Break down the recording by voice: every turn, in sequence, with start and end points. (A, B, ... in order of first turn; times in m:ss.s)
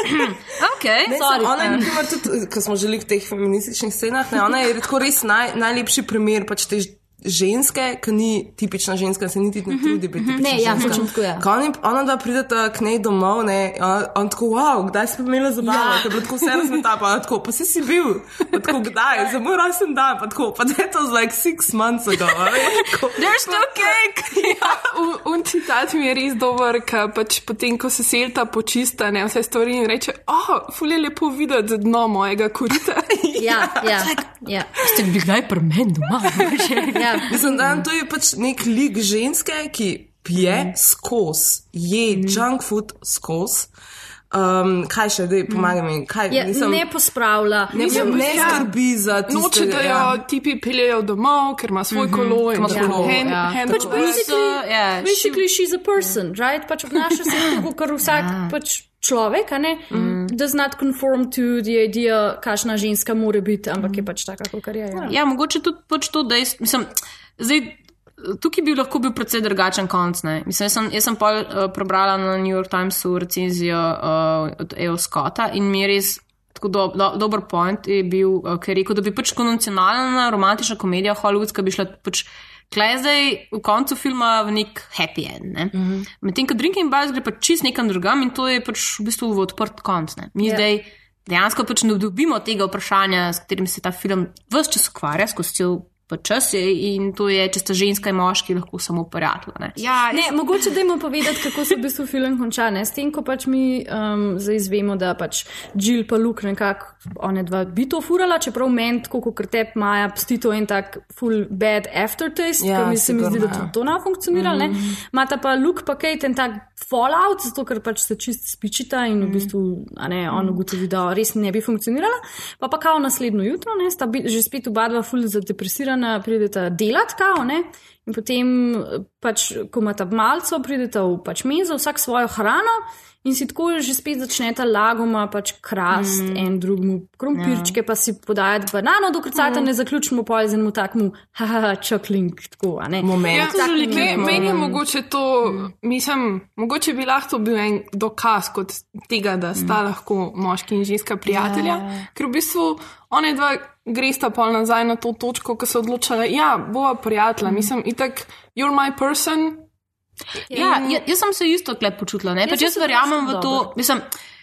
0:00.4-0:01.9 A
0:01.1-0:23.4 B
0:01.1-0:01.9 C
0:10.2-0:11.0 A
0:10.4-0:11.4 C
0:15.6-0:16.0 C
0:23.1-0:24.8 A
0:23.5-0:33.2 D
0:33.4-0:34.1 B
0:33.4-0:34.7 C
0:34.8-0:37.7 A
0:36.9-0:37.3 C
0:37.3-0:43.7 B
0:42.2-0:42.4 A
0:44.3-0:46.9 B
0:45.5-0:45.8 A
0:46.3-0:48.6 C
0:47.7-0:50.2 B
0:47.8-0:48.7 D
0:49.3-0:54.3 D
0:51.9-0:55.4 A
0:52.7-0:53.3 B
0:53.6-1:05.1 C
0:58.1-0:58.5 A
0:59.9-1:00.2 B
0:59.9-1:00.3 A
1:05.0-1:40.7 A
1:25.8-1:26.0 B
1:40.1-2:24.5 C
1:52.6-1:53.7 B
1:54.3-1:55.0 A
1:59.2-1:59.5 A
2:15.9-2:16.5 A
2:17.3-2:17.7 A
2:19.4-2:19.7 A
2:23.0-2:24.5 B
2:23.3-2:39.7 D
2:23.3-2:24.8 A
2:31.3-2:32.0 A
2:40.5-2:40.9 C
2:40.5-2:44.0 A
2:40.6-2:40.9 D
2:42.5-2:43.7 C